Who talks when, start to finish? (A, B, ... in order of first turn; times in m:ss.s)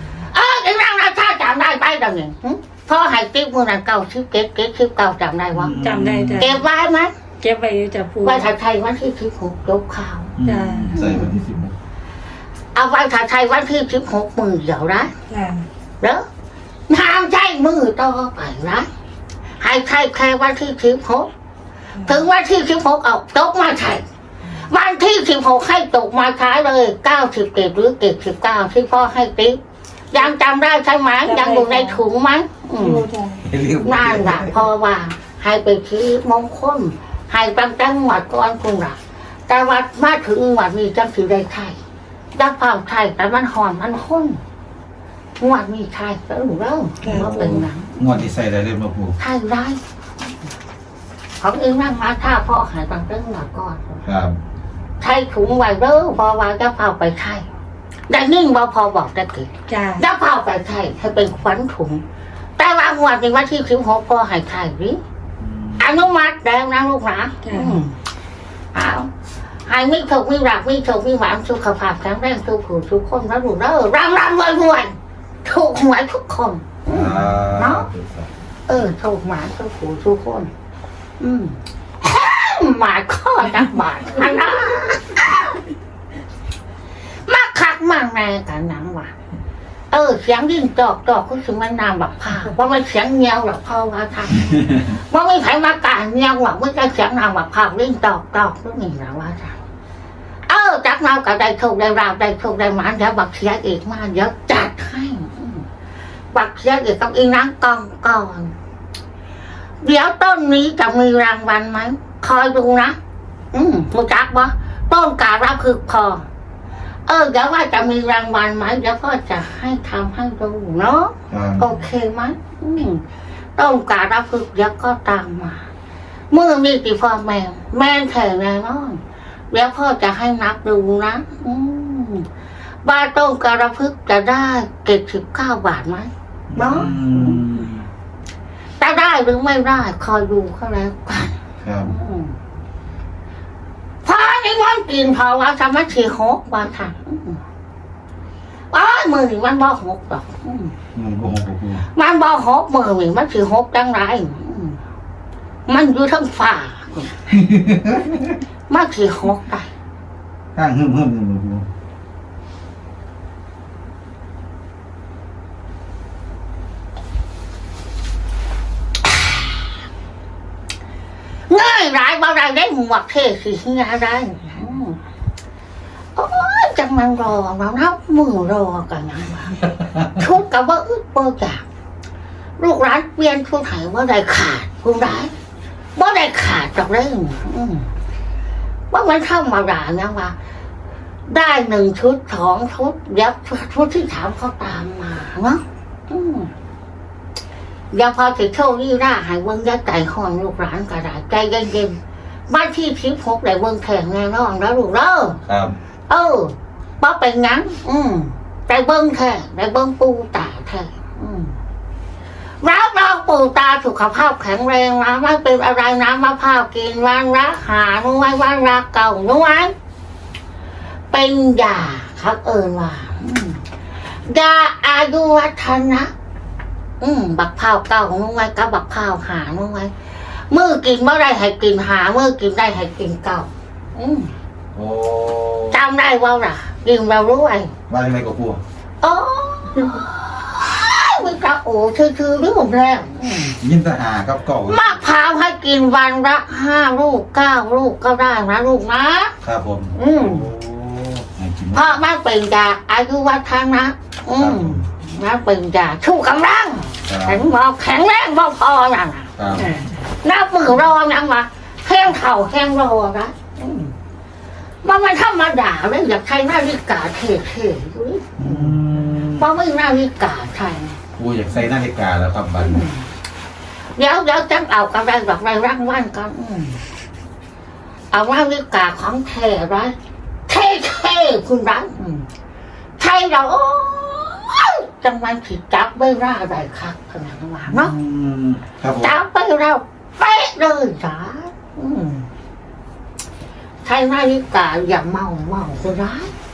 0:00.3-0:05.8 A
0:05.5-0:06.6 B
0:05.8-0:06.6 C
0:06.4-0:07.1 A
0:07.4-0:08.5 C
0:08.2-0:10.3 A
0:10.4-0:11.8 B
0:10.4-0:11.0 C
0:10.9-0:11.4 A
0:12.7-0:15.1 A
0:15.3-0:15.7 C
0:16.0-0:16.3 A
0:16.9-0:18.9 A
0:19.6-0:21.3 A
0:22.0-0:29.6 A
0:30.1-0:33.1 A
0:31.3-0:32.0 C
0:32.8-0:33.4 C
0:33.4-0:34.6 B
0:33.8-0:41.8 A
0:42.4-0:44.4 A
0:45.4-0:48.2 A
0:47.0-0:49.2 B
0:49.2-0:49.8 A
0:51.4-0:54.0 A
0:54.0-0:54.4 B
0:55.0-0:57.5 A
0:58.1-1:02.0 A
0:59.7-1:00.0 C
1:02.6-1:05.0 A
1:05.4-1:05.9 B
1:05.8-1:08.0 A
1:07.4-1:07.8 C
1:08.7-1:09.1 A
1:09.7-1:17.9 A
1:16.9-1:18.3 B
1:18.7-1:20.5 A
1:21.2-1:25.6 A
1:27.3-1:29.1 A
1:29.9-1:39.6 A
1:40.5-1:45.7 A
1:46.3-1:48.5 A
1:49.8-1:53.0 A
1:53.5-1:56.3 A
1:57.1-2:03.0 A
2:01.3-2:01.7 B
2:03.6-2:05.6 A
2:06.3-2:12.3 A
2:12.8-2:17.4 A
2:16.5-2:17.9 B
2:18.8-2:22.4 A
2:21.6-2:21.9 B
2:24.0-2:27.4 A
2:28.7-2:30.7 A
2:31.0-2:31.8 B
2:31.9-2:34.8 A
2:35.7-2:37.2 A
2:37.3-2:38.2 B
2:38.7-2:39.7 A
2:40.6-2:41.6 B
2:51.5-2:55.0 A
2:56.2-3:01.6 A
3:02.6-3:05.3 A
3:06.0-3:07.9 A
3:08.9-3:10.4 A
3:11.3-3:16.5 A
3:17.9-3:25.4 A
3:25.5-3:25.8 B
3:26.1-3:31.6 A
3:32.6-3:39.7 A
3:41.1-3:43.6 A
3:44.3-3:46.1 A
3:47.0-3:49.9 A
3:50.5-3:54.3 A
3:54.8-3:55.8 B
3:55.7-3:57.7 A
3:57.9-3:58.6 B
3:59.0-4:03.6 A
4:03.6-4:05.0 B
4:04.6-4:09.3 A
4:09.4-4:12.0 B
4:09.9-4:10.5 A
4:11.7-4:23.9 A
4:14.4-4:14.8 B
4:17.1-4:17.5 B
4:19.4-4:19.7 B
4:19.6-4:19.9 C
4:24.8-4:28.8 A
4:28.4-4:29.5 B
4:29.3-4:31.0 A
4:31.2-4:32.9 B
4:32.6-4:33.0 A
4:34.0-4:36.8 A
4:38.1-4:40.0 A
4:40.5-4:42.3 A
4:43.0-4:47.9 A
4:47.7-4:49.2 B
4:49.0-4:52.3 A
4:53.8-4:56.3 A